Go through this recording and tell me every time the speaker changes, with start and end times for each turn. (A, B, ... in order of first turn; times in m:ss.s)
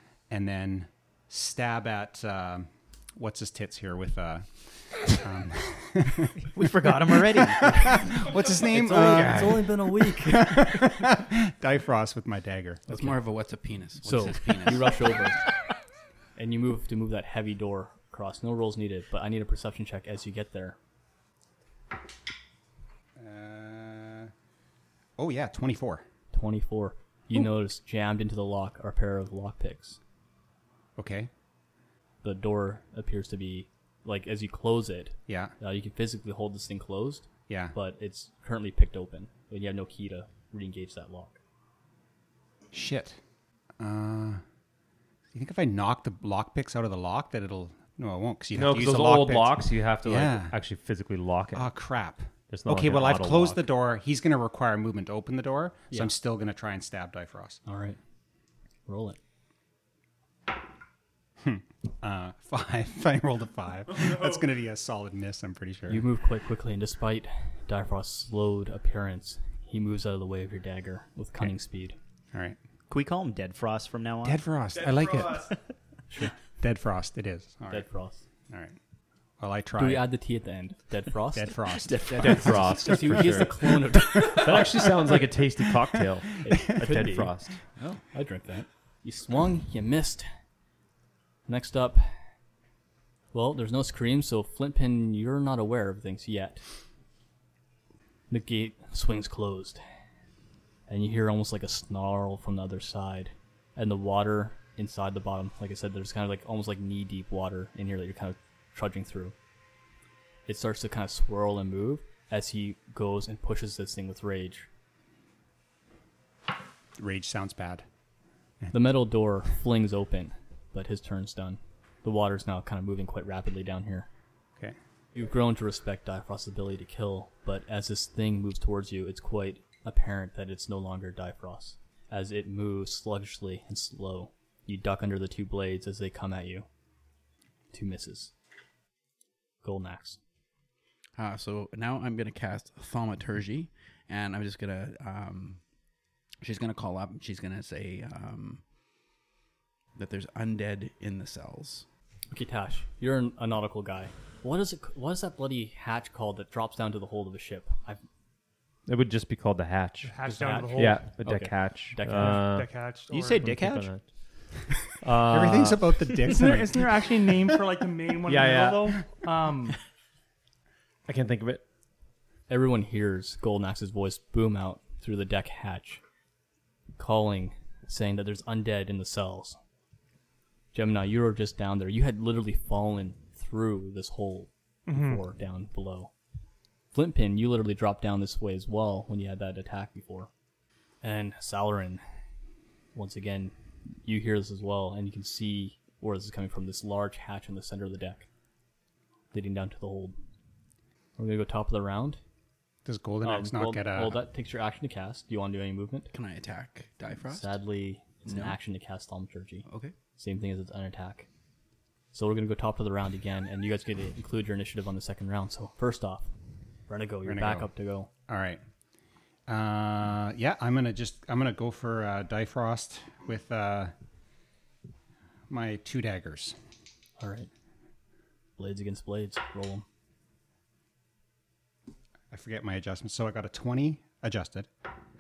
0:00.3-0:09.7 A
0:06.5-0:09.5 B
0:08.9-0:09.8 C
0:09.1-0:10.9 D
0:10.2-0:12.9 A
0:12.9-0:15.2 C
0:12.9-0:13.2 D
0:14.0-0:15.4 D
0:16.4-0:20.8 D
0:23.2-0:24.3 A
0:25.2-0:26.0 A
0:26.3-0:30.0 D
0:31.0-0:31.3 A
0:32.2-0:41.4 D
0:35.3-0:35.5 A
0:37.5-0:37.8 A
0:42.7-0:43.2 A
0:43.8-0:44.4 A
0:45.3-0:50.6 A
0:48.6-0:51.7 E
0:51.5-0:57.6 A
0:52.5-0:53.7 E
0:57.7-0:58.0 D
0:58.9-0:59.2 D
1:01.4-1:06.1 A
1:05.9-1:12.0 D
1:12.9-1:14.4 B
1:14.2-1:15.5 A
1:14.8-1:15.5 F
1:15.2-1:15.6 B
1:16.6-1:17.9 A
1:17.7-1:18.2 D
1:18.5-1:18.8 A
1:19.4-1:20.1 A
1:19.8-1:24.8 D
1:21.3-1:23.4 A
1:22.1-1:22.4 C
1:22.2-1:27.6 E
1:24.0-1:25.2 A
1:26.0-1:26.9 A
1:26.4-1:27.3 D
1:28.0-1:30.3 D
1:31.5-1:32.2 D
1:33.3-1:36.6 D
1:38.3-1:39.8 D
1:40.9-1:49.4 D
1:50.5-1:54.7 D
1:57.0-1:57.8 A
1:58.7-2:04.1 D
2:05.2-2:16.7 D
2:17.7-2:18.3 D
2:19.6-2:20.2 D
2:21.2-2:25.6 C
2:26.4-2:28.6 C
2:30.0-2:31.9 C
2:32.3-2:38.0 D
2:38.9-2:40.2 E
2:40.0-2:41.0 F
2:40.2-2:42.4 D
2:40.7-2:42.9 E
2:42.1-2:43.5 F
2:43.1-2:43.9 B
2:43.4-2:44.1 E
2:45.0-2:46.2 E
2:45.3-2:47.6 A
2:46.3-2:49.8 F
2:48.3-2:49.1 E
2:51.1-2:51.6 E
2:52.5-2:56.0 D
2:57.0-2:59.6 D
3:00.7-3:06.1 D
3:04.9-3:05.2 F
3:06.9-3:10.3 D
3:11.0-3:12.0 D
3:12.9-3:18.3 D
3:19.3-3:20.2 D
3:21.2-3:22.2 D
3:22.8-3:24.2 A
3:23.2-3:26.1 D
3:26.1-3:27.6 C
3:27.3-3:31.3 D
3:28.2-3:28.6 C
3:29.7-3:29.9 C
3:32.1-3:36.3 D
3:36.9-3:38.1 D
3:37.2-3:37.7 A
3:38.3-3:38.6 A
3:39.5-3:43.9 A
3:45.5-3:46.6 A
3:47.2-3:47.5 D
3:48.6-3:49.8 D
3:52.3-3:54.7 A